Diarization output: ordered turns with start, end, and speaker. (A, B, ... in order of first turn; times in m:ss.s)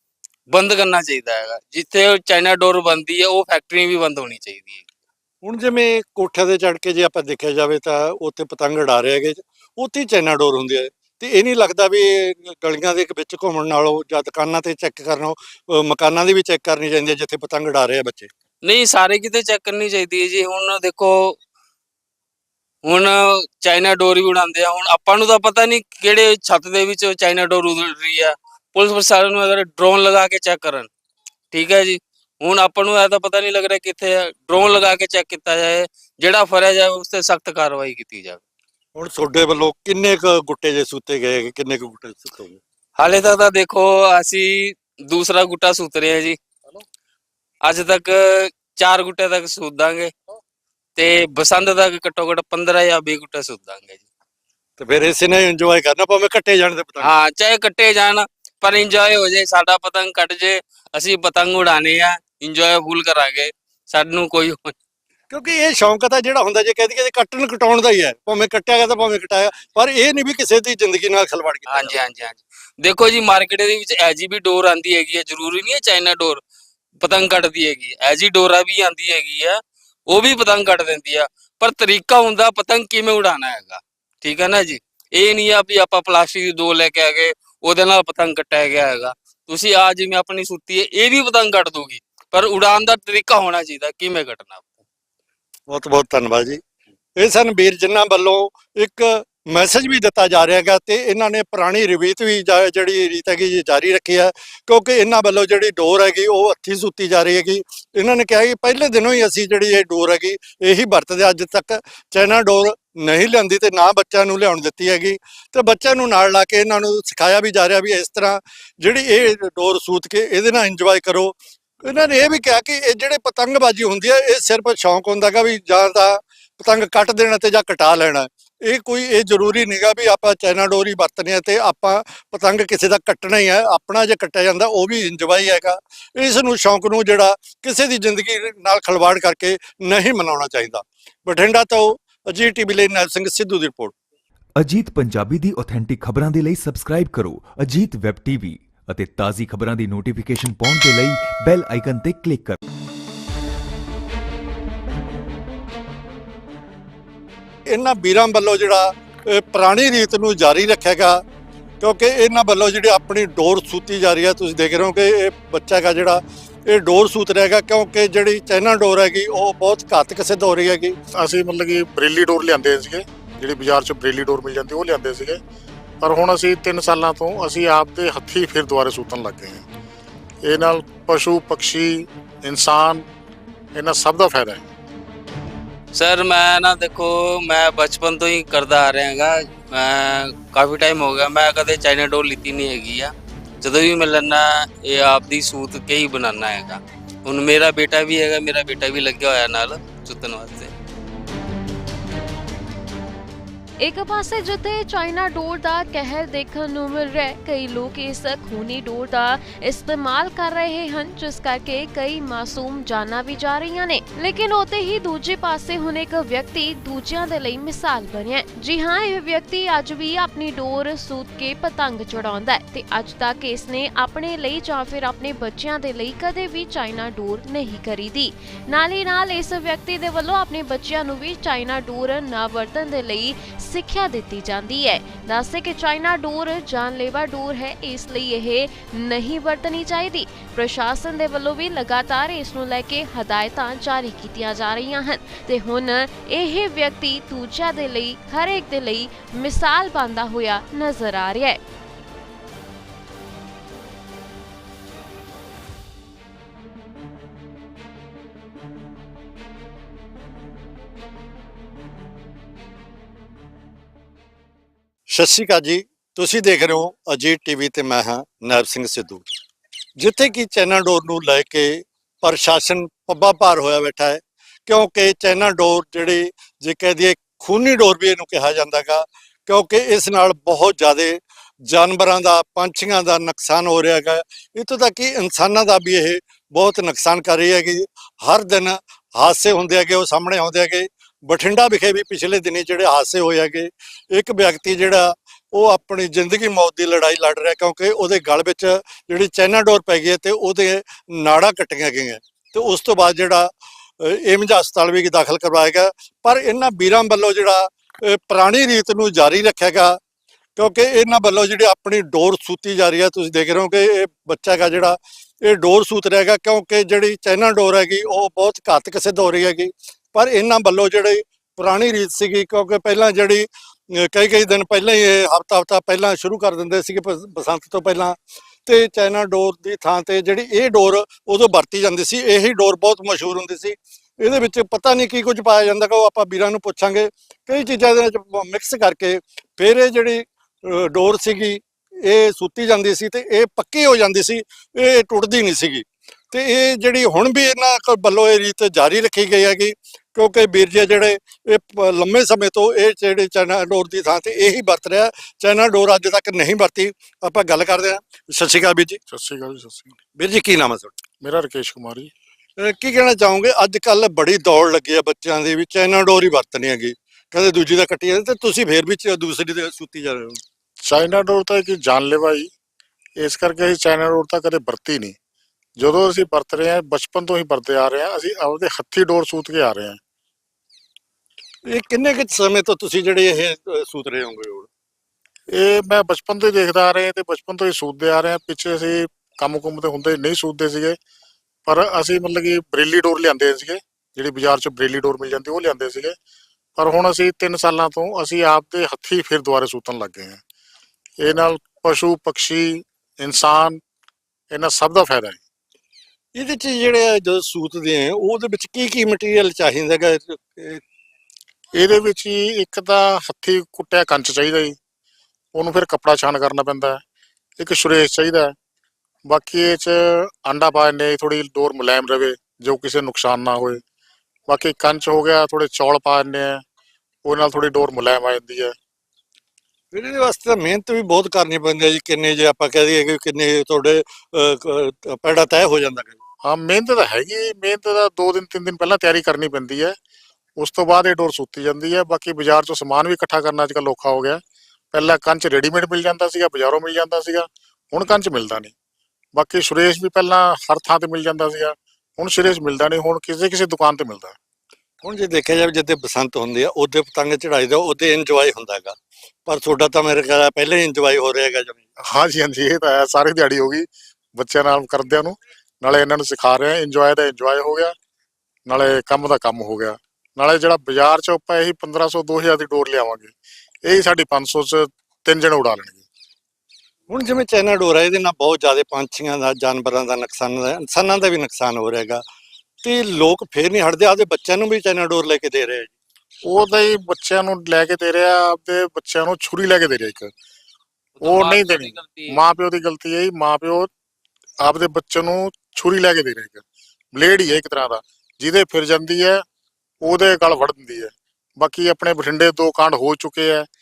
0:00.5-0:04.8 A
0:05.4-0:18.3 B
0:18.6-0:21.4 A
0:22.8-0:30.9 A
0:31.5-0:38.4 A
0:39.0-0:42.6 B
0:43.0-0:46.4 A
0:47.6-0:50.1 A
0:51.0-0:54.1 A
0:54.8-0:57.2 B
0:57.0-1:04.8 A
1:05.3-1:11.9 B
1:11.7-1:16.4 A
1:17.0-1:19.6 A
1:20.1-1:34.7 A
1:35.7-1:36.6 B
1:37.2-2:23.9 B
2:24.6-2:32.6 C
2:37.7-2:41.2 B
2:41.8-2:51.0 B
2:51.1-2:55.4 D
2:56.0-2:59.6 D
3:00.4-3:03.1 D
3:03.7-3:04.6 D
3:05.9-3:20.7 A
3:23.8-4:11.6 E
4:25.1-4:29.3 B
4:30.0-5:10.0 B
5:10.6-5:59.0 B
5:59.1-6:00.0 D
6:00.2-6:00.9 B
6:01.2-6:02.1 D
6:02.6-6:10.4 B
6:10.8-6:12.5 D
6:13.2-6:15.2 D
6:15.8-6:20.0 D
6:21.7-6:24.7 B
6:25.5-6:31.0 D
6:31.7-6:36.2 D
6:36.8-6:40.4 D
6:41.2-6:43.8 D
6:44.5-6:45.4 D
6:46.4-6:50.8 B
6:51.8-6:54.8 D
6:55.5-6:57.0 D
6:57.6-6:58.5 D
6:59.2-7:03.8 D
7:04.5-7:06.6 D
7:07.2-7:08.7 D
7:09.9-7:16.2 B
7:16.4-7:20.0 D
7:20.6-7:24.4 D
7:24.9-7:28.7 D
7:29.4-7:34.4 D
7:35.0-7:39.0 B
7:39.5-7:41.8 B
7:42.1-7:47.9 D
7:48.7-7:53.3 D
7:53.9-7:56.0 D
7:57.1-8:02.2 B
8:02.8-8:05.9 B
8:06.5-8:10.3 D
8:11.2-8:12.4 A
8:11.2-8:13.9 D
8:14.6-8:16.6 D
8:17.1-8:19.4 D
8:20.0-8:23.7 D